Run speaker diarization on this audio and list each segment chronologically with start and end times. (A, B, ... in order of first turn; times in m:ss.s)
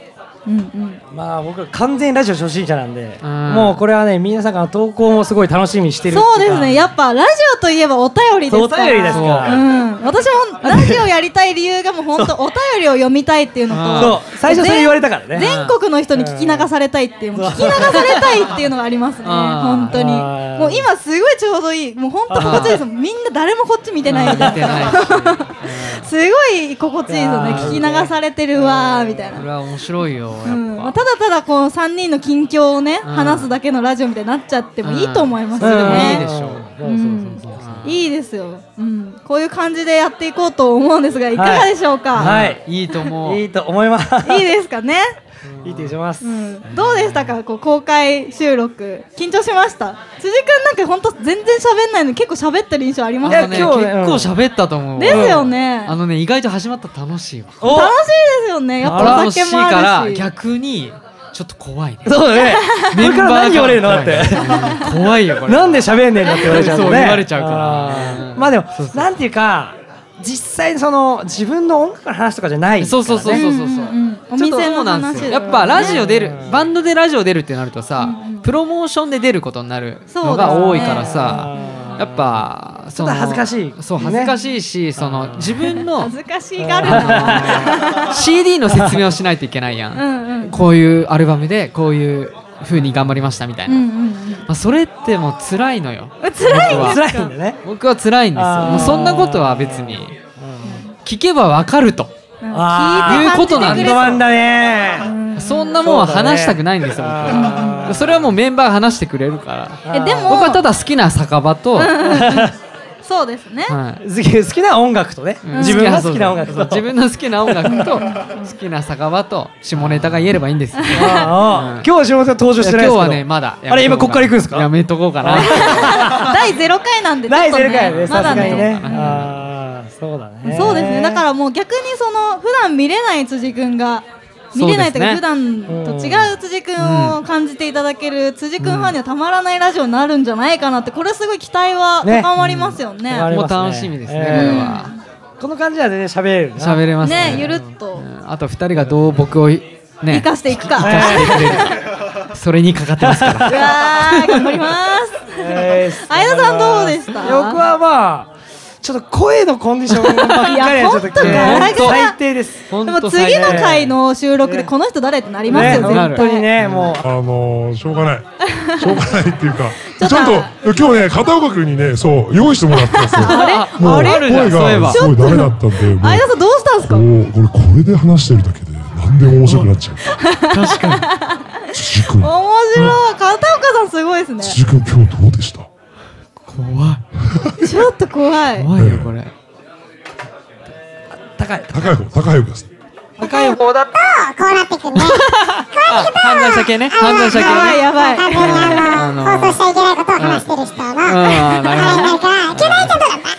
0:00.5-0:01.0 A
0:01.1-0:06.6 B
0:03.2-0:03.8 C
0:06.1-0:29.5 A
0:06.4-0:06.9 C
0:08.5-0:09.6 B
0:09.1-0:09.6 C
0:10.6-0:11.1 B
0:13.7-0:14.2 C
0:14.0-0:15.5 B
0:15.4-0:15.8 C
0:16.1-0:16.7 B
0:17.4-0:18.4 B
0:19.2-0:20.0 C
0:19.9-0:20.9 B
0:22.3-0:22.8 B
0:22.4-0:22.8 C
0:24.0-0:26.1 C
0:24.2-0:24.8 B
0:27.1-0:29.4 B
0:27.5-0:27.8 C
0:29.3-0:31.0 C
0:30.4-0:36.2 A
0:33.0-0:33.5 C
0:34.8-0:36.7 C
0:35.6-0:37.9 B
0:36.8-0:42.4 A
0:37.5-0:38.0 C
0:41.4-0:42.6 B
0:42.1-0:43.4 C
0:43.2-0:44.5 B
0:44.2-0:45.1 A
0:45.6-0:45.9 C
0:45.6-0:46.3 B
0:46.2-0:53.8 A
0:53.2-0:57.7 C
0:53.2-0:54.3 B
0:55.0-0:56.0 A
0:55.1-0:55.5 B
0:57.6-0:58.0 B
0:57.6-1:00.3 A
0:58.8-1:02.4 C
0:58.8-0:59.3 B
1:02.0-1:13.5 B
1:02.3-1:03.0 A
1:02.9-1:09.1 C
1:04.4-1:04.9 A
1:06.3-1:06.6 A
1:12.8-1:26.1 C
1:13.3-1:16.0 A
1:15.3-1:16.6 B
1:18.0-1:18.5 A
1:20.1-1:21.9 A
1:20.4-1:22.4 B
1:22.9-1:24.3 B
1:24.1-1:24.4 A
1:25.0-1:25.6 B
1:25.6-1:28.1 A
1:26.6-1:27.9 B
1:26.8-1:33.8 C
1:28.7-1:29.0 B
1:29.9-1:30.6 A
1:33.7-1:34.5 A
1:34.5-1:37.0 C
1:36.2-1:37.3 A
1:36.4-1:37.6 B
1:37.6-1:40.1 C
1:38.4-1:40.8 B
1:38.6-1:39.0 A
1:40.6-1:40.9 A
1:41.0-1:42.1 C
1:42.4-1:44.3 A
1:42.5-1:45.1 B
1:43.0-1:44.2 C
1:45.0-1:45.8 A
1:45.4-1:52.0 C
1:45.8-1:48.3 B
1:47.3-1:47.9 A
1:49.8-1:50.4 B
1:49.9-1:50.6 A
1:51.8-1:53.8 A
1:52.0-1:52.5 B
1:53.7-1:54.0 C
1:54.0-1:56.9 B
1:55.4-2:01.9 C
1:55.5-1:56.1 A
1:57.5-1:57.9 B
1:57.6-1:58.5 A
1:59.8-2:00.2 B
2:00.8-2:01.3 A
2:00.9-2:06.4 B
2:02.6-2:06.2 C
2:05.4-2:09.2 A
2:07.3-2:11.2 B
2:07.7-2:09.4 C
2:10.5-2:23.3 A
2:10.5-2:10.8 C
2:14.5-2:15.2 C
2:15.7-2:16.4 B
2:16.8-2:17.2 C
2:18.6-2:19.0 C
2:22.0-2:22.3 B
2:22.4-2:24.9 C
2:23.0-2:24.8 B
2:24.3-2:25.0 A
2:25.4-2:27.6 B
2:26.6-2:34.3 C
2:27.0-2:28.1 A
2:30.1-2:31.8 A
2:30.8-2:31.7 B
2:33.0-2:34.0 B
2:33.4-2:37.6 A
2:35.3-2:38.3 B
2:38.8-2:42.7 B
2:40.1-2:42.2 A
2:41.2-2:42.1 C
2:42.7-2:43.9 C
2:42.8-2:46.5 A
2:43.2-2:43.9 B
2:44.4-2:44.7 B
2:45.5-2:47.0 B
2:45.5-2:47.0 C
2:47.0-3:00.2 D
2:48.5-2:48.9 A
2:49.9-2:50.8 A
2:52.9-2:57.1 A
2:53.2-2:55.0 C
2:59.4-2:59.8 C
3:00.1-3:04.6 A
3:00.4-3:01.1 C
3:01.7-3:03.0 D
3:04.4-3:05.7 D
3:06.5-3:07.0 C
3:07.6-3:08.7 A
3:08.6-3:09.3 C
3:08.8-3:09.1 D
3:11.2-3:12.0 B
3:11.7-3:12.7 D
3:13.2-3:14.0 B
3:13.2-3:13.6 A
3:14.5-3:15.0 E
3:14.9-3:23.0 C
3:15.0-3:15.6 A
3:17.0-3:19.0 A
3:19.4-3:23.0 E
3:21.9-3:22.2 A